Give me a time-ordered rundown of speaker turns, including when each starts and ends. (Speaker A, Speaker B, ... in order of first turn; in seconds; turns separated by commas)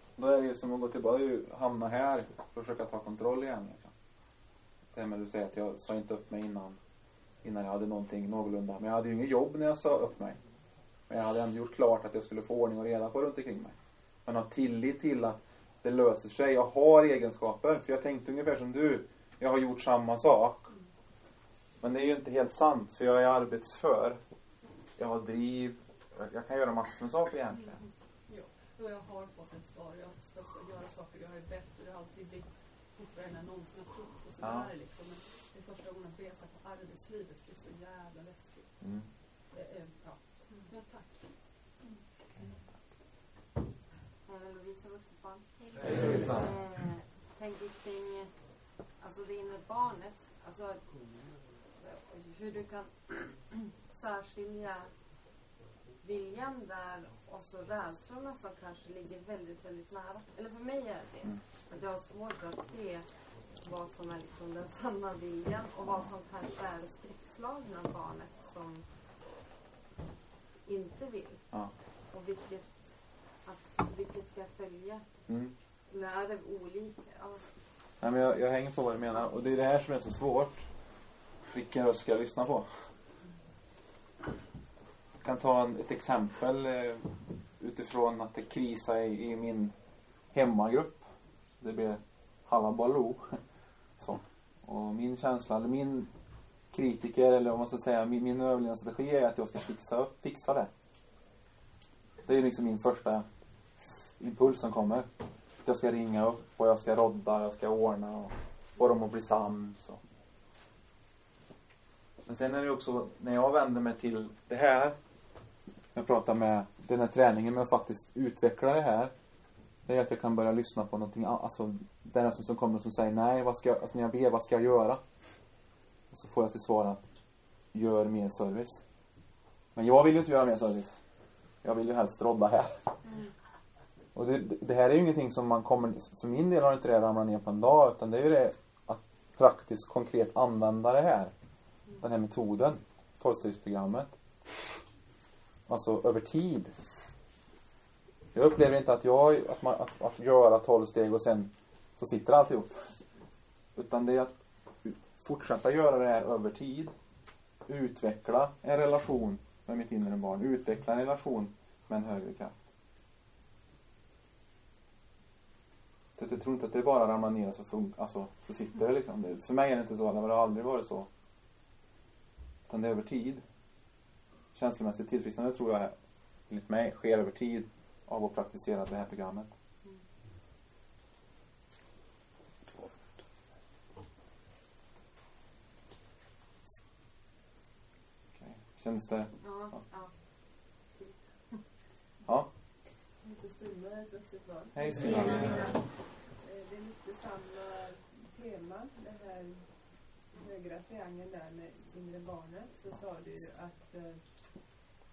Speaker A: 0.2-3.9, Speaker A: 4.9-6.8, Speaker A: 7.4-10.4, Speaker A: 11.1-20.6, Speaker A: 21.8-24.2, Speaker A: 25.0-27.8, Speaker B: 27.6-39.0, Speaker A: 34.4-34.7, Speaker A: 38.8-39.1, Speaker B: 39.5-41.5, Speaker C: 44.2-50.9, Speaker A: 45.8-46.5, Speaker C: 51.8-55.0, Speaker C: 56.0-68.9, Speaker C: 70.6-75.2, Speaker A: 75.3-75.5, Speaker C: 75.9-77.4, Speaker A: 78.0-80.7, Speaker A: 81.5-82.7, Speaker A: 85.2-89.7, Speaker A: 90.3-91.1, Speaker A: 91.6-93.4, Speaker A: 94.0-96.1, Speaker A: 96.7-100.7, Speaker A: 102.2-103.2, Speaker A: 103.8-105.1, Speaker A: 105.6-110.0, Speaker A: 112.3-115.0, Speaker A: 116.0-119.1, Speaker A: 119.9-125.0, Speaker A: 126.1-127.1, Speaker A: 127.7-128.8, Speaker A: 129.8-131.0, Speaker A: 131.6-132.8, Speaker A: 134.2-141.3, Speaker A: 142.0-144.1, Speaker A: 145.7-146.7, Speaker A: 148.3-152.9, Speaker A: 153.8-156.9, Speaker A: 157.7-162.6, Speaker A: 166.2-171.1, Speaker A: 172.7-173.4, Speaker A: 174.5-175.9, Speaker A: 176.5-179.5, Speaker A: 188.3-189.8, Speaker C: 189.4-191.6, Speaker D: 193.2-204.8, Speaker A: 194.7-195.7